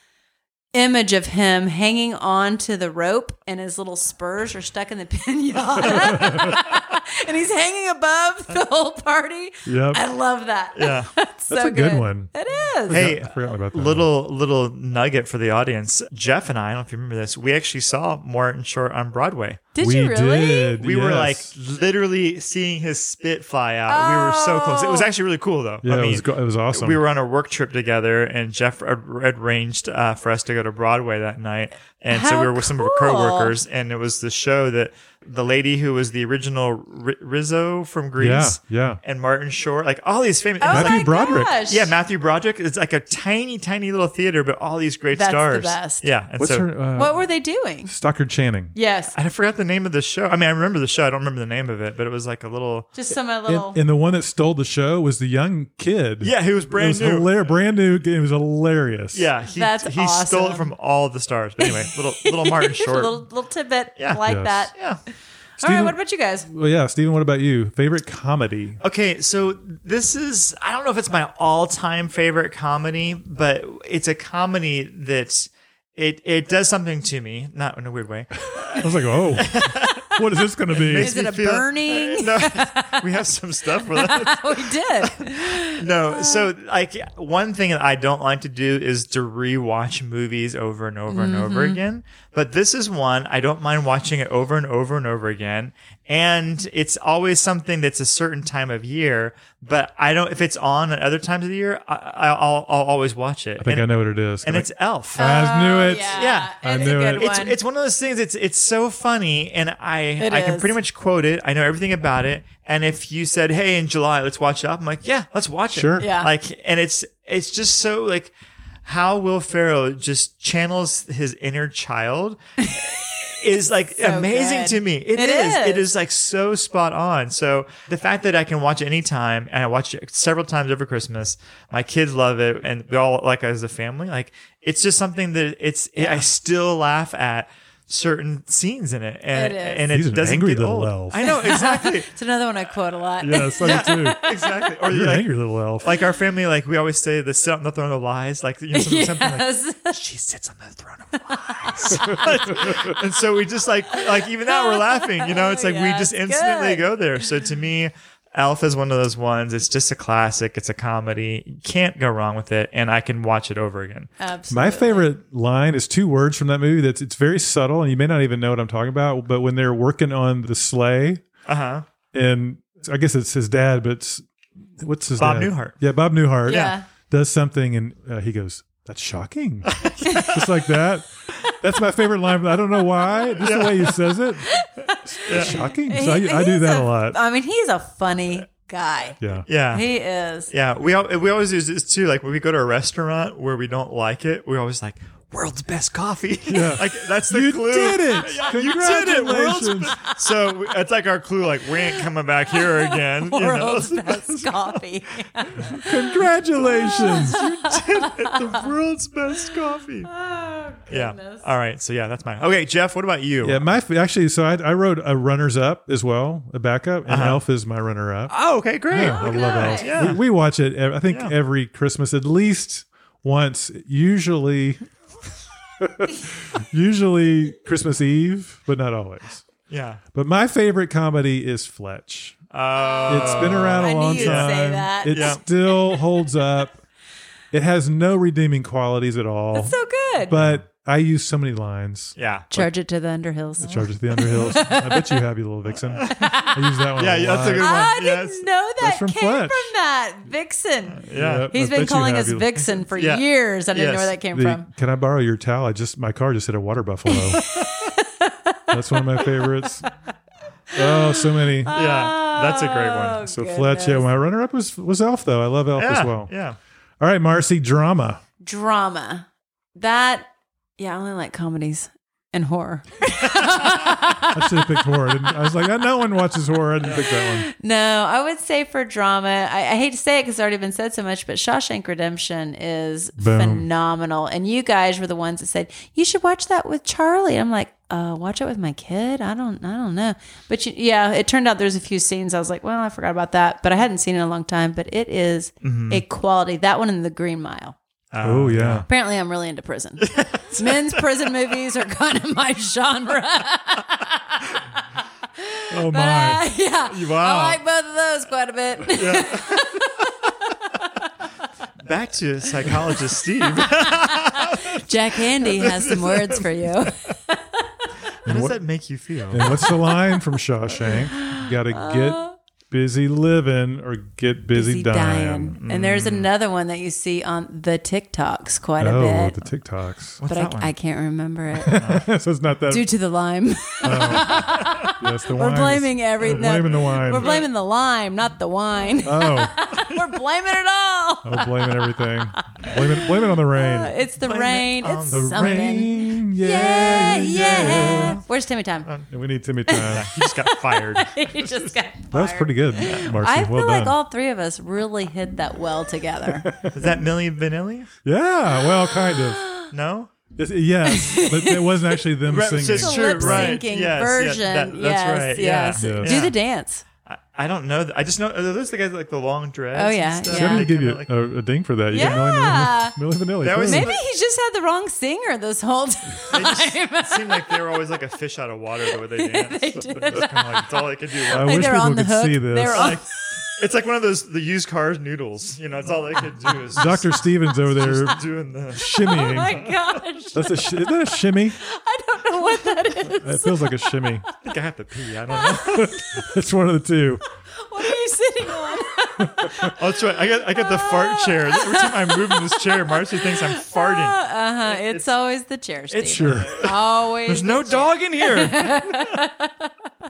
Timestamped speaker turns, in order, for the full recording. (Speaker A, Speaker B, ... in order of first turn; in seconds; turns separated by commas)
Speaker A: 0.7-13.1, Speaker B: 5.8-6.6, Speaker C: 5.9-6.5, Speaker C: 9.7-10.0, Speaker B: 10.7-11.1, Speaker C: 11.5-12.3, Speaker C: 12.8-14.1, Speaker B: 12.9-19.6, Speaker A: 19.7-20.8, Speaker C: 19.8-21.5, Speaker B: 20.8-46.7, Speaker A: 23.9-25.1, Speaker C: 25.8-27.0, Speaker A: 32.1-33.5, Speaker C: 38.2-39.0, Speaker A: 40.6-41.9, Speaker C: 40.7-41.6, Speaker A: 45.1-46.0, Speaker C: 46.4-47.2, Speaker A: 47.0-47.9, Speaker C: 47.8-48.7, Speaker A: 48.7-49.1, Speaker B: 49.1-52.9, Speaker A: 52.9-53.8, Speaker C: 53.5-59.3, Speaker B: 56.2-57.4, Speaker B: 59.1-63.2, Speaker A: 59.5-60.7, Speaker A: 61.6-64.8, Speaker C: 64.2-64.7, Speaker B: 64.7-65.0, Speaker A: 65.6-66.5, Speaker C: 65.6-68.8, Speaker B: 68.8-80.1, Speaker C: 78.7-81.2, Speaker B: 80.7-105.2, Speaker A: 80.9-83.1, Speaker A: 83.9-86.5, Speaker A: 91.1-91.8, Speaker C: 103.6-107.3, Speaker A: 105.2-107.6, Speaker B: 106.1-118.3, Speaker A: 110.2-110.7, Speaker C: 115.7-116.1, Speaker A: 116.0-116.3, Speaker B: 118.8-142.1, Speaker A: 122.6-123.0, Speaker A: 124.0-125.8, Speaker A: 136.0-136.2, Speaker A: 139.3-139.9, Speaker C: 139.9-141.4, Speaker A: 141.2-144.7, Speaker C: 143.2-144.2, Speaker B: 143.6-164.1, Speaker C: 144.9-145.9, Speaker A: 148.7-150.0, Speaker A: 151.3-152.2, Speaker C: 151.9-152.9, Speaker A: 153.9-156.8, Speaker A: 164.2-165.1, Speaker C: 164.5-171.2, Speaker B: 171.4-171.8, Speaker C: 172.1-174.2, Speaker C: 174.8-187.2, Speaker B: 175.2-175.8, Speaker B: 176.5-176.8, Speaker A: 176.5-176.8, Speaker B: 179.7-180.3, Speaker A: 180.1-180.3, Speaker B: 183.4-183.9, Speaker A: 184.4-190.5, Speaker B: 185.3-185.5, Speaker C: 189.2-189.4, Speaker B: 189.5-189.8, Speaker B: 190.5-204.8, Speaker C: 196.5-200.0, Speaker A: 202.5-206.0, Speaker C: 205.7-207.5, Speaker A: 206.7-208.4, Speaker B: 206.9-210.1, Speaker A: 210.1-211.4, Speaker B: 210.9-213.6, Speaker C: 213.4-224.8, Speaker B: 217.1-217.4, Speaker B: 218.3-220.2, Speaker A: 218.9-220.0, Speaker B: 221.1-221.3, Speaker C: 225.8-229.4, Speaker B: 229.7-230.0, Speaker C: 230.1-232.4, Speaker B: 232.5-234.5, Speaker A: 232.8-236.0, Speaker C: 233.1-236.8, Speaker B: 235.1-235.4, Speaker C: 237.5-242.1, Speaker A: 239.5-240.6, Speaker B: 242.2-242.7, Speaker A: 242.5-245.2, Speaker C: 243.6-247.8, Speaker B: 245.9-246.3, Speaker A: 246.1-246.7, Speaker B: 247.0-248.4, Speaker A: 247.5-254.7, Speaker C: 248.8-249.7, Speaker B: 250.9-251.5, Speaker C: 251.1-252.6, Speaker B: 252.7-254.1, Speaker C: 254.3-257.4, Speaker A: 257.1-259.8, Speaker C: 258.7-259.9, Speaker C: 260.7-261.8, Speaker A: 260.8-264.1, Speaker B: 261.7-263.2, Speaker C: 263.2-266.3, Speaker B: 265.8-266.6, Speaker C: 267.0-268.2, Speaker A: 268.4-275.3, Speaker C: 274.3-277.5, Speaker A: 276.9-297.8, Speaker C: 283.2-283.7, Speaker B: 295.6-296.0, Speaker B: 298.1-298.9, Speaker C: 298.2-298.9, Speaker A: 298.9-304.6, Speaker B: 300.0-301.0, Speaker A: 305.4-310.1, Speaker C: 305.7-306.4, Speaker B: 306.9-307.6, Speaker B: 308.9-309.7, Speaker B: 311.8-314.8, Speaker A: 314.7-317.6, Speaker B: 315.4-316.9, Speaker B: 318.2-319.7, Speaker C: 318.2-318.6, Speaker C: 319.3-325.6, Speaker A: 320.9-322.3, Speaker A: 324.5-329.4, Speaker B: 325.6-326.3, Speaker C: 328.8-330.2, Speaker B: 330.2-330.7, Speaker A: 330.3-331.8, Speaker C: 331.6-332.9, Speaker B: 331.7-332.1, Speaker A: 332.7-348.9, Speaker C: 333.8-337.4, Speaker B: 334.3-334.9, Speaker B: 336.2-337.4, Speaker C: 339.0-339.5, Speaker C: 341.2-343.9, Speaker B: 344.2-345.8, Speaker C: 345.1-348.2, Speaker B: 347.9-348.2, Speaker C: 349.1-350.1, Speaker A: 349.7-356.5, Speaker B: 349.8-351.5, Speaker C: 352.1-353.9, Speaker B: 352.8-353.1, Speaker C: 356.3-356.9, Speaker B: 356.7-357.9, Speaker C: 358.0-359.4, Speaker A: 358.6-359.7, Speaker B: 359.7-360.1, Speaker C: 360.3-363.6, Speaker A: 360.8-362.0, Speaker B: 362.3-366.3, Speaker A: 362.6-366.8, Speaker C: 365.8-366.3, Speaker B: 367.1-371.1, Speaker A: 369.7-370.7, Speaker C: 370.3-373.9, Speaker A: 371.9-373.0, Speaker B: 371.9-372.2, Speaker B: 373.4-374.0, Speaker A: 373.6-377.6, Speaker B: 376.3-381.6, Speaker A: 379.1-383.5, Speaker C: 381.3-383.0, Speaker B: 382.7-389.7, Speaker C: 386.7-389.7, Speaker A: 388.8-394.3, Speaker C: 390.3-391.6, Speaker C: 393.0-394.2, Speaker B: 394.4-395.9, Speaker A: 395.3-396.3, Speaker C: 395.6-397.2, Speaker A: 397.6-399.8, Speaker C: 399.2-399.7, Speaker B: 399.7-405.1, Speaker A: 400.5-409.7, Speaker B: 405.9-406.7, Speaker C: 406.1-406.6, Speaker B: 407.2-409.2